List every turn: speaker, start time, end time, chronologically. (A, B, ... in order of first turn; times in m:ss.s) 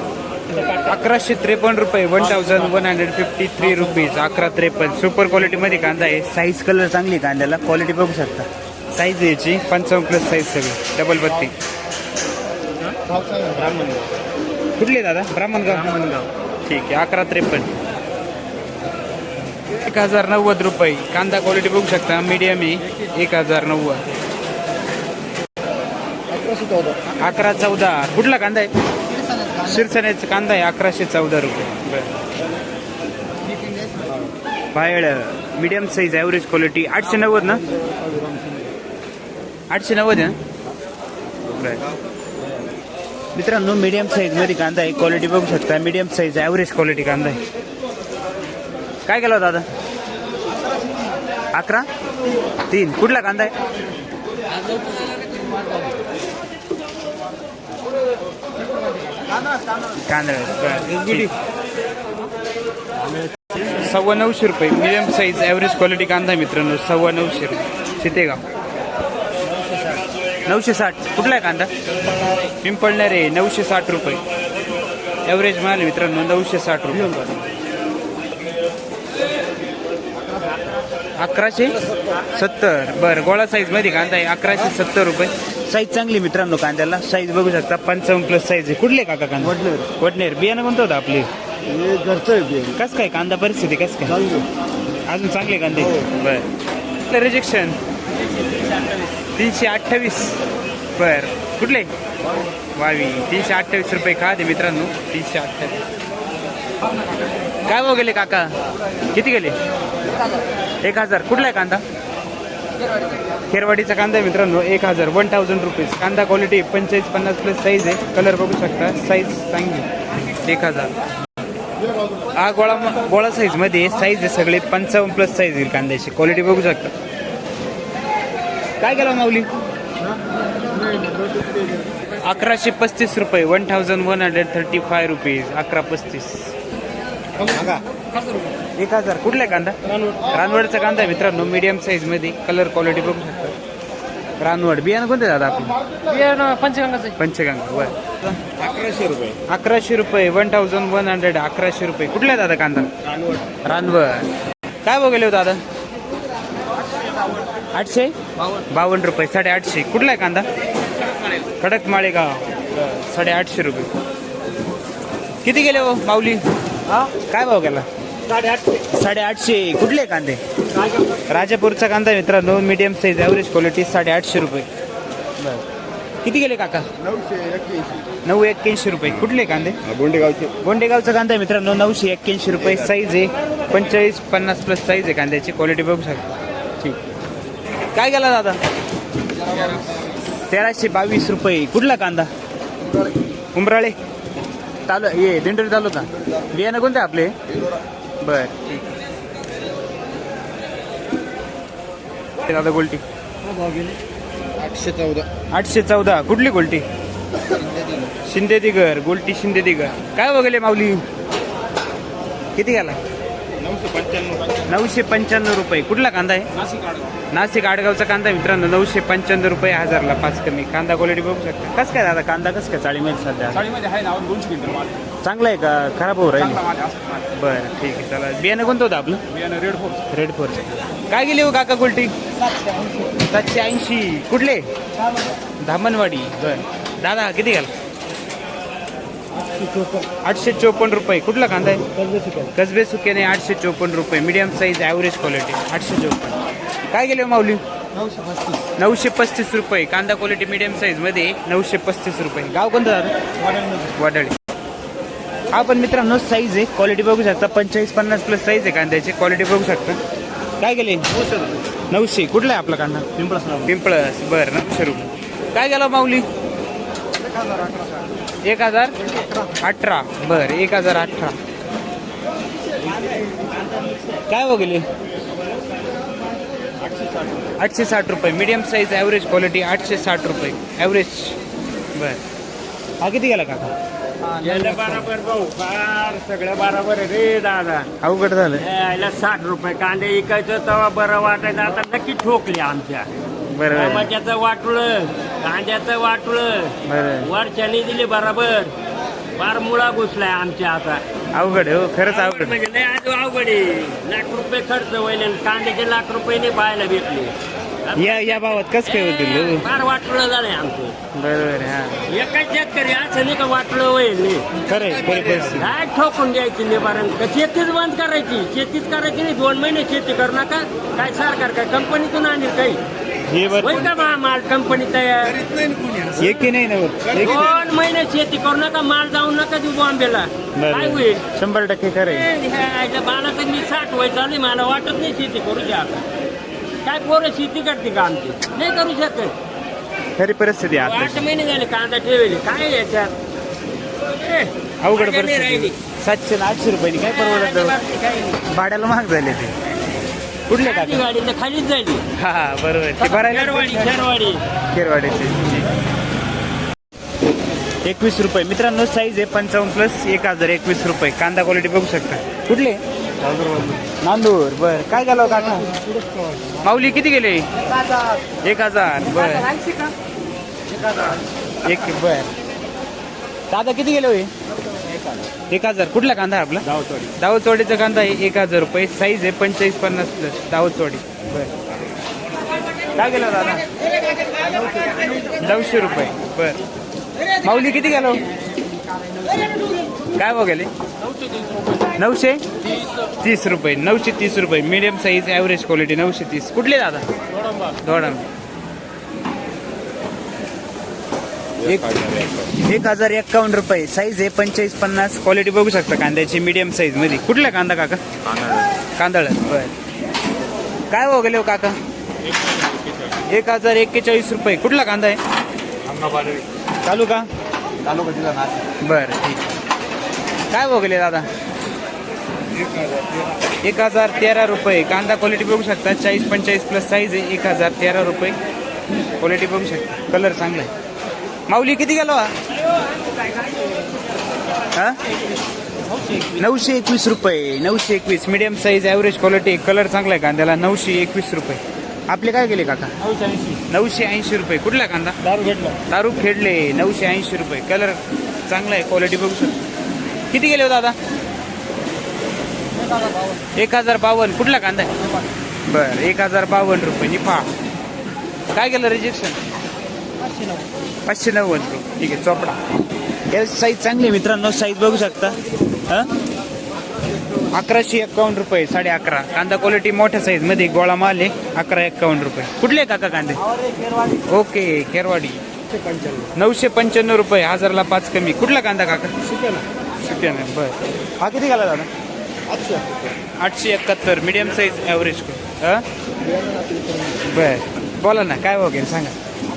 0:00.7-0:11.5 A
0:13.1-0:14.0 B
0:14.8-0:17.7 A
0:19.7-0:24.0 A
0:26.3-0:27.0 B
0:27.2-0:28.7 A
0:29.5-0:32.2 A
0:33.8-0:34.1 B
0:34.7-0:37.7 A
0:37.9-0:38.7 B
0:39.7-0:40.4 A
0:41.5-0:41.8 A
0:43.4-0:47.4 A
0:49.1-0:49.7 A
0:51.5-0:51.9 A
0:52.7-0:53.5 A
0:59.9-1:01.3 A
1:03.6-1:08.4 A
1:10.5-1:11.7 A
1:12.6-1:14.2 A
1:15.3-1:17.3 A
1:21.2-1:31.3 A
1:31.7-1:32.7 B
1:32.7-1:34.2 A
1:35.1-1:36.5 A
1:37.0-1:37.8 A
1:39.4-1:40.4 A
1:41.0-1:41.9 A
1:42.8-1:45.8 A
1:47.6-1:48.5 A
1:49.1-1:49.6 A
1:50.8-1:51.8 A
1:53.5-1:59.9 A
2:00.4-2:00.9 A
2:02.3-2:06.9 A
2:08.8-2:09.5 A
2:10.9-2:11.7 B
2:12.2-2:16.6 A
2:17.4-2:17.8 A
2:18.8-2:19.8 A
2:20.3-2:23.5 A
2:24.4-2:26.2 A
2:26.1-2:27.0 B
2:27.0-2:28.3 A
2:28.6-2:29.4 B
2:29.5-2:32.9 A
2:33.6-2:34.3 A
2:34.8-2:35.6 A
2:37.7-2:38.2 A
2:38.7-2:40.5 A
2:41.6-2:43.9 A
2:45.4-2:46.4 A
2:47.1-2:47.9 A
2:48.8-2:50.4 A
2:51.3-2:54.7 A
2:56.2-2:56.9 A
2:57.0-2:58.0 B
2:58.2-2:59.8 A
2:59.9-3:00.6 B
3:00.6-3:06.3 A
3:07.9-3:08.6 A
3:10.5-3:12.3 A
3:13.6-3:14.0 A
3:14.9-3:17.3 A
3:18.2-3:18.9 A
3:22.4-3:23.0 A
3:23.5-3:24.0 B
3:24.6-3:25.3 B
3:25.5-3:26.8 A
3:27.6-3:28.1 B
3:28.2-3:31.0 A
3:32.6-3:33.0 A
3:33.6-3:34.6 B
3:34.7-3:36.5 A
3:37.3-3:43.7 A
3:43.7-3:45.0 B
3:45.2-3:46.6 A
3:46.7-3:47.1 B
3:47.2-3:49.2 A
3:49.5-3:49.9 B
3:49.9-3:52.1 A
3:53.1-3:54.6 A
3:55.6-3:57.7 A
3:59.5-4:00.1 B
4:00.2-4:01.9 A
4:02.1-4:02.5 B
4:02.5-4:06.4 A
4:06.9-4:07.6 A
4:08.0-4:08.6 B
4:08.8-4:13.1 A
4:13.5-4:13.8 B
4:13.9-4:14.4 A
4:15.5-4:20.0 A
4:20.6-4:21.1 A
4:21.9-4:26.2 A
4:23.3-4:23.6 B
4:27.6-4:27.8 B
4:28.4-4:29.0 A
4:29.6-4:31.4 A
4:34.3-4:34.8 A
4:36.8-4:37.5 B
4:37.6-4:41.4 A
4:42.0-4:42.2 A
4:43.0-4:43.7 A
4:44.3-4:47.9 C
4:44.7-4:45.0 A
4:48.0-4:48.6 A
4:48.6-4:53.1 C
4:53.5-4:54.1 A
4:53.7-4:58.7 C
4:56.9-4:57.3 A
4:59.4-5:01.0 C
5:01.3-5:02.6 A
5:02.1-5:11.0 C
5:08.0-5:09.7 A
5:11.1-5:12.0 A
5:12.1-5:14.6 C
5:14.6-5:15.8 A
5:15.5-5:22.8 C
5:23.3-5:23.9 A
5:23.6-5:25.5 C
5:25.5-5:26.2 B
5:26.2-5:27.6 A
5:27.2-5:31.2 C
5:30.6-5:32.3 A
5:32.0-5:36.1 C
5:36.8-5:39.4 C
5:40.2-5:41.3 A
5:40.8-5:43.1 C
5:44.0-5:45.8 C
5:44.8-5:47.8 A
5:47.1-5:48.4 C
5:48.5-5:49.5 A
5:50.5-5:51.0 A
5:50.6-5:52.0 C
5:52.2-5:54.0 A
5:53.0-5:54.4 C
5:54.7-5:55.7 A
5:57.8-6:02.8 A
6:03.2-6:03.8 B
6:04.0-6:05.8 A
6:05.9-6:06.5 B
6:06.6-6:07.5 A
6:08.4-6:09.7 A
6:10.8-6:11.2 B
6:11.6-6:12.3 A
6:13.5-6:14.3 A
6:15.5-6:21.5 A
6:23.0-6:23.6 A
6:24.4-6:25.2 B
6:25.4-6:26.6 A
6:27.4-6:28.2 A
6:30.2-6:30.7 A
6:32.0-6:32.4 A
6:33.1-6:37.1 A
6:37.8-6:38.3 A
6:41.6-6:48.0 A
6:49.0-6:49.7 A
6:50.9-6:51.8 A
6:52.7-6:53.0 B
6:53.3-6:55.2 A
6:55.9-6:56.4 B
6:56.8-6:57.3 A
6:57.8-6:58.6 B
6:58.8-6:59.5 A
7:00.5-7:01.3 A
7:02.7-7:03.1 B
7:03.6-7:08.4 A
7:09.2-7:10.7 A
7:11.5-7:12.3 A
7:14.7-7:15.0 A
7:16.3-7:22.9 A
7:23.1-7:23.6 B
7:23.7-7:25.2 A
7:25.4-7:25.8 B
7:25.9-7:28.0 A
7:28.5-7:29.6 A
7:30.3-7:31.0 A
7:33.6-7:34.9 A
7:35.7-7:37.5 A
7:38.5-7:39.4 A
7:41.1-7:42.6 A
7:43.3-7:46.1 A
7:47.5-7:53.4 A
7:53.7-7:54.2 B
7:54.2-7:55.4 A
7:55.8-7:56.3 B
7:56.3-7:59.3 A
7:59.4-7:59.6 B
8:00.0-8:01.9 A
8:02.5-8:03.0 B
8:03.4-8:05.8 A
8:06.3-8:07.2 B
8:07.2-8:09.2 A